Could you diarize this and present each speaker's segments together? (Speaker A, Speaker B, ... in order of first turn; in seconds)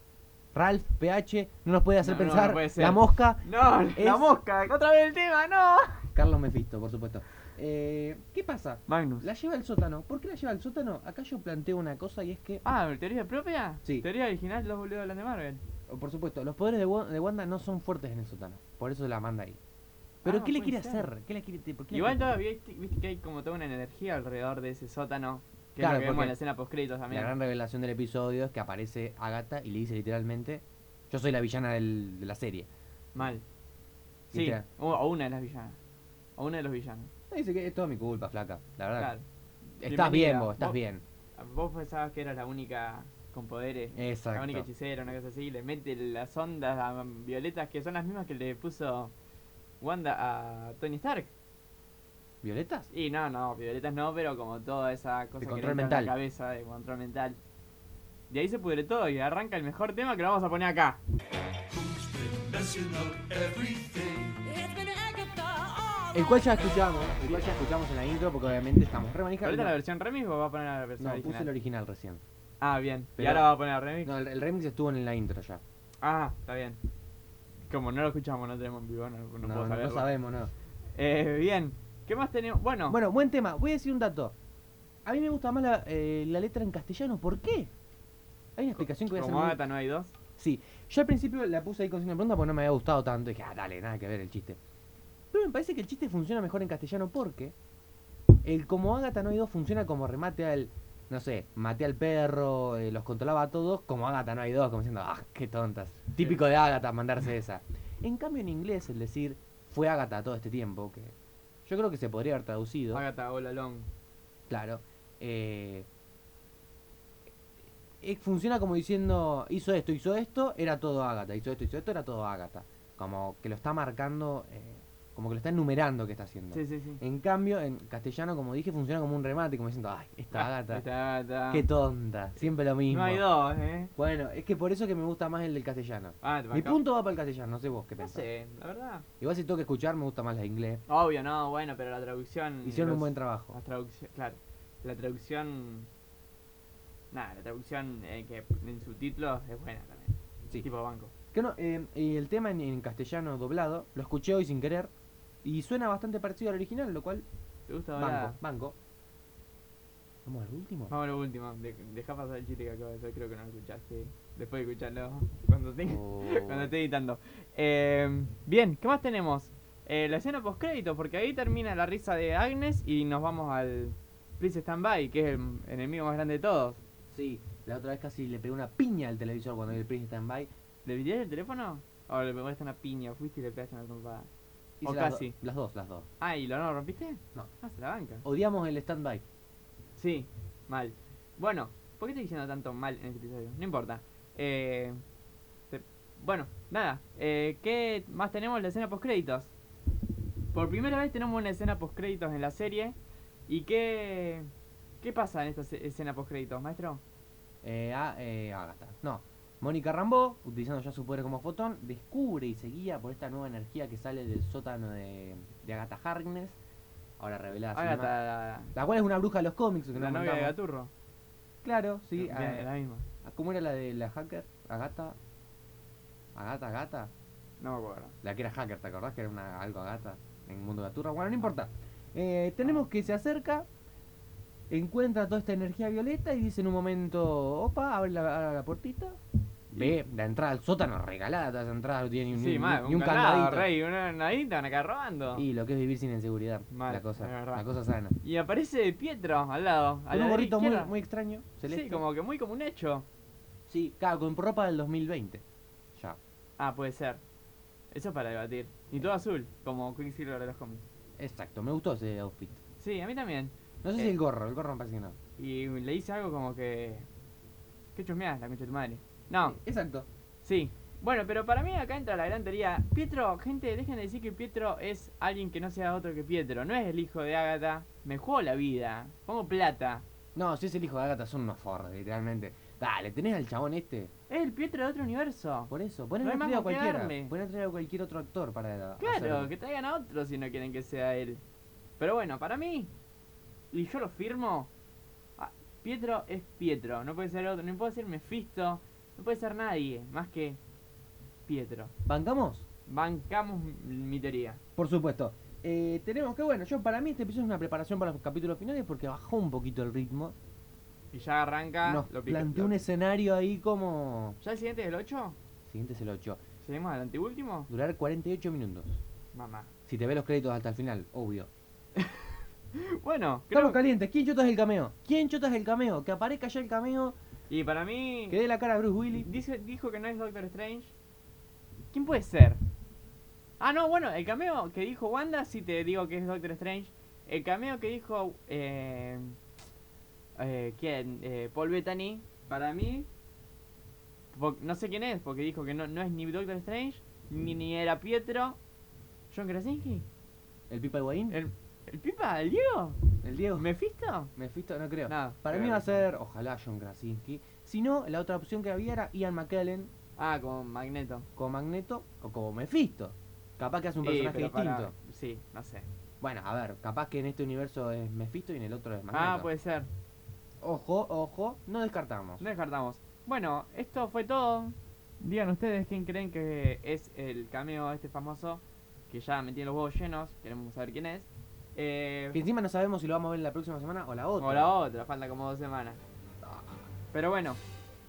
Speaker A: 0.5-4.4, 6.1-12.6, 15.9-19.6, 20.2-22.3, 25.8-26.4, 27.1-32.7, 34.3-34.6, 37.3-39.1, 39.8-41.0, 44.0-44.7, 52.4-52.9, 55.4-56.1, 61.7-64.4, 66.1-69.7, 71.0-72.2, 73.2-73.5, 74.0-75.6, 79.4-80.5, 82.9-84.3, 85.0-87.7, 88.6-89.6, 90.4-94.6, 95.3-97.5, 98.4-113.0, 114.5-115.9, 118.0-130.8, 131.5-133.3, 134.0-138.3, 139.2-140.8, 142.6-143.6, 151.3-154.9, 155.4-157.3, 158.0-158.8, 160.2-160.9, 165.9-166.7, 177.1-180.5, 184.8-186.1, 188.2-189.2, 207.6-216.6, 217.2-218.1, 218.8-220.6, 221.6-222.7, 223.2-225.2, 226.3-227.1, 228.2-233.7, 234.7-239.2, 239.7-243.7, 245.3-248.2, 250.1-252.0, 253.7-255.4, 261.2-262.6, 263.8-265.2, 269.4-270.1, 280.4-284.1, 285.7-289.5, 302.1-302.7, 304.8-310.4, 311.9-314.4, 315.7-316.4, 317.7-319.0, 319.9-321.5, 323.5-327.2, 328.3-329.3, 350.7-351.4, 353.2-353.7, 354.4-359.9, 361.4-364.9, 366.2-369.5, 370.6-372.4, 382.3-384.7, 386.4-386.8
Speaker B: 2.0-6.1, 8.9-9.3, 12.6-15.6, 20.2-21.1, 21.9-27.3, 33.1-33.4, 34.3-35.8, 36.4-37.1, 39.0-39.2, 39.9-40.8, 41.4-49.1, 49.8-51.3, 52.9-57.4, 58.3-61.0, 69.4-71.5, 72.6-74.1, 76.0-76.8, 77.7-80.1, 81.0-83.0, 88.8-90.1, 112.9-113.9, 126.5-127.0, 130.3-131.7, 132.4-133.9, 136.2-136.8, 138.0-139.1, 140.9-145.9, 147.1-151.1, 157.7-158.4, 160.9-176.8, 180.8-184.3, 184.8-185.4, 186.2-188.2, 190.0-195.0, 195.7-199.5, 200.5-203.0, 203.5-204.5, 205.0-207.0, 217.7-218.7, 219.9-220.9, 222.2-223.1, 227.6-228.2, 239.7-240.0, 242.3-245.5, 246.7-247.7, 248.2-250.9, 251.7-253.1, 256.6-257.2, 257.9-260.8, 262.8-264.1, 265.4-267.1, 267.9-269.6, 270.4-280.1, 284.3-287.3, 289.0-291.4, 292.0-292.9, 293.7-294.7, 295.4-300.6, 301.5-301.9, 302.9-304.6, 311.1-312.8, 314.4-315.4, 316.6-317.7, 319.3-319.7, 322.0-323.8, 327.5-328.4, 329.2-330.9, 331.9-332.6, 333.6-339.4, 340.4-343.1, 344.3-348.6, 349.3-350.1, 351.3-353.0, 353.5-354.3, 355.1-356.1, 360.2-361.3, 364.0-365.9, 369.1-369.9, 372.4-382.4, 384.4-386.0, 387.1-387.6